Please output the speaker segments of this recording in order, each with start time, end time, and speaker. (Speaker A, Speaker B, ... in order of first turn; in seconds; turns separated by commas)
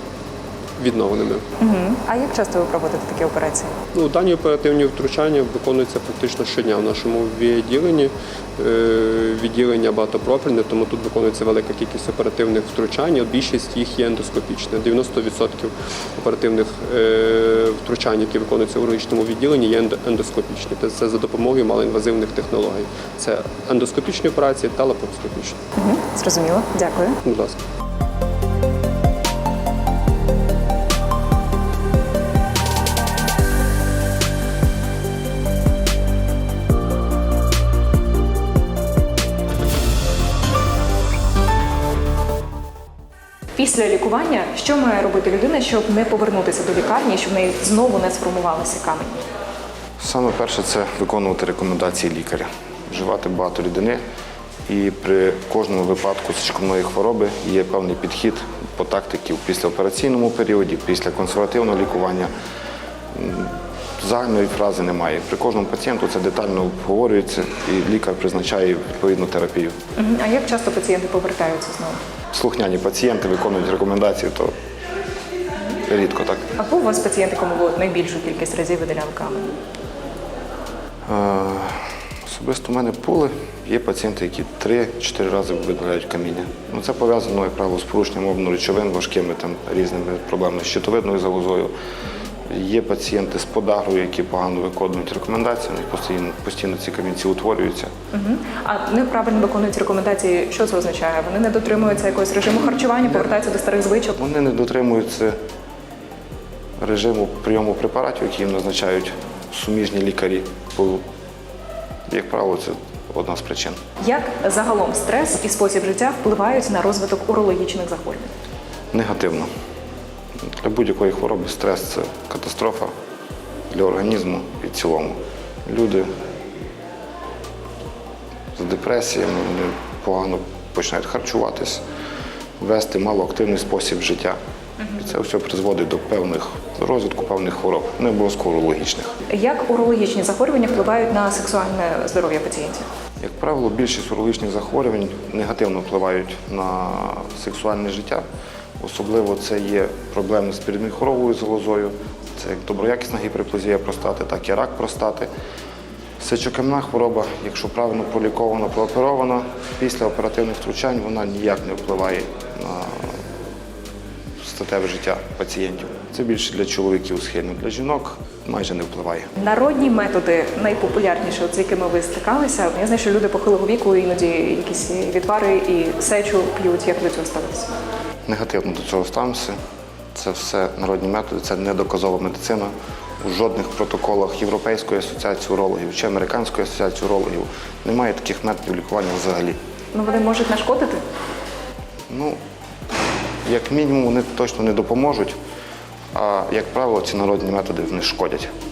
Speaker A: 0.8-1.4, Speaker B: 1.6-3.8, Speaker A: 3.9-25.6, Speaker B: 25.8-27.2, Speaker A: 27.2-27.6, Speaker B: 43.6-49.2, Speaker C: 50.0-54.0, Speaker C: 54.7-62.3, Speaker C: 63.1-69.8, Speaker B: 70.0-72.0, Speaker C: 72.3-74.5, Speaker C: 75.8-76.5, Speaker B: 76.6-79.6, Speaker C: 81.1-91.7, Speaker C: 92.5-97.9, Speaker B: 98.1-104.2, Speaker C: 104.2-105.4, Speaker C: 106.8-111.0, Speaker C: 112.1-113.8, Speaker B: 114.0-118.3, Speaker C: 118.9-119.5, Speaker C: 120.5-122.9, Speaker C: 123.7-126.1, Speaker C: 128.6-131.8, Speaker C: 132.6-134.4, Speaker C: 135.0-139.1, Speaker B: 139.3-142.8, Speaker C: 143.2-148.2, Speaker C: 148.8-155.3, Speaker C: 156.2-163.2, Speaker C: 164.4-169.3, Speaker B: 169.4-177.7, Speaker C: 178.3-179.6, Speaker C: 180.1-182.7, Speaker C: 183.2-189.6, Speaker B: 189.9-191.0, Speaker C: 192.1-192.4, Speaker C: 193.5-195.4, Speaker C: 196.1-198.5